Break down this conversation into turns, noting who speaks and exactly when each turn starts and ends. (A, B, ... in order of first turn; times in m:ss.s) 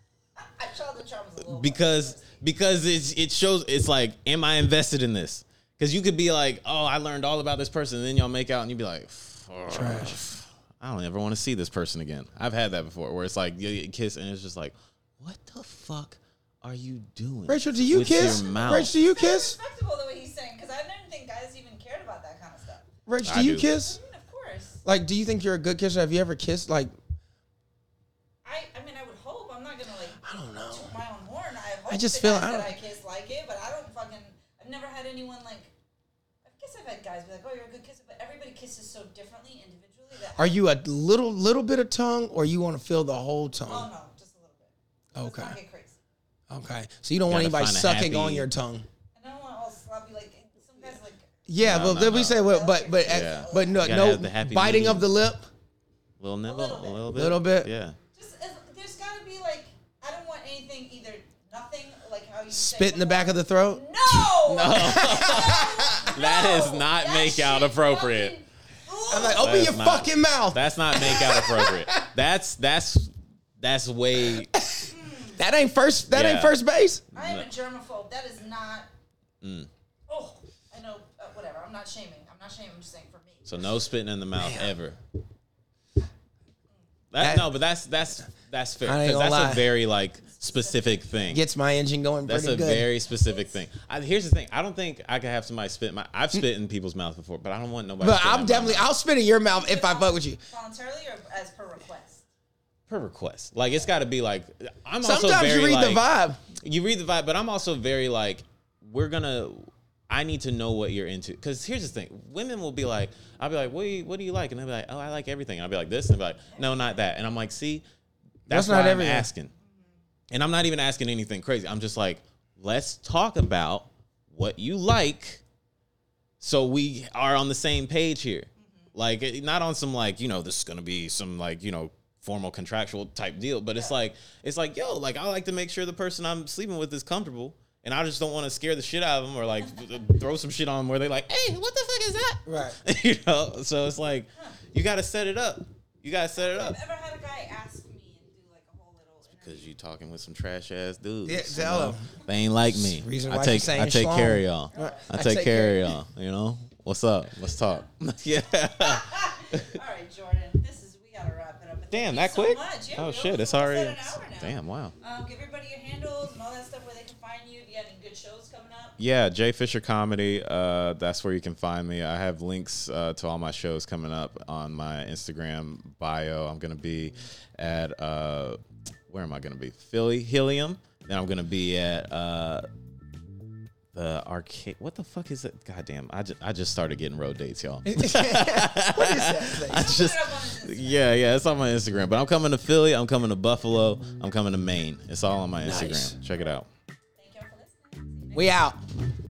0:00.4-0:02.3 A
0:01.4-0:18.9 B
0:09.7-0:10.2 C
0:17.5-0:19.6 C
0:18.1-0:22.8 A
0:23.1-0:24.0 C
0:23.2-0:23.7 B
0:23.8-0:24.8 A
0:24.8-0:26.9 C
0:28.4-0:35.7 A
0:30.2-0:30.9 C
0:31.9-0:32.7 C
0:36.4-0:40.6 A
0:40.4-0:43.9 C
0:43.7-0:46.0 A
0:45.1-0:45.6 C
0:46.5-0:48.9 C
0:47.2-0:48.5 B
0:49.1-0:53.9 A
0:51.5-0:55.5 C
0:51.6-0:52.4 B
0:53.1-0:55.1 B
0:56.2-0:58.0 B
0:56.4-0:57.0 A
0:57.1-0:57.7 C
0:58.1-1:09.5 A
1:02.5-1:03.8 C
1:04.3-1:08.4 B
1:04.6-1:06.0 C
1:09.1-1:12.1 C
1:09.4-1:14.5 B
1:14.2-1:17.0 C
1:14.9-1:15.4 A
1:16.1-1:16.6 B
1:17.1-1:18.9 A
1:17.1-1:17.4 B
1:19.4-1:19.7 B
1:20.1-1:23.5 A
1:23.4-1:25.0 B
1:24.4-1:24.7 C
1:27.1-1:31.4 B
1:27.2-1:27.5 C
1:28.8-1:29.6 C
1:30.4-1:31.3 A
1:31.3-1:32.9 C
1:32.2-1:38.9 B
1:38.0-1:40.4 C
1:39.5-1:42.2 A
1:42.9-1:46.0 B
1:45.0-1:46.4 C
1:46.6-1:57.8 B
1:56.5-1:57.0 A
1:58.5-1:59.3 C
1:58.5-1:59.5 B
1:59.6-1:59.9 A
2:00.3-2:05.4 B
2:06.4-2:26.8 B
2:08.6-2:08.9 A
2:22.4-2:22.8 C
2:26.4-2:29.7 A
2:29.3-2:39.7 B
2:31.2-2:32.1 C
2:32.7-2:36.0 C
2:34.7-2:35.0 A
2:38.7-2:49.0 A
2:41.9-2:44.9 B
2:49.0-3:02.6 B
3:03.9-3:16.7 B
3:07.8-3:09.8 C
3:09.7-3:11.2 A
3:15.6-3:16.2 C
3:17.2-3:18.5 A
3:18.3-3:18.8 C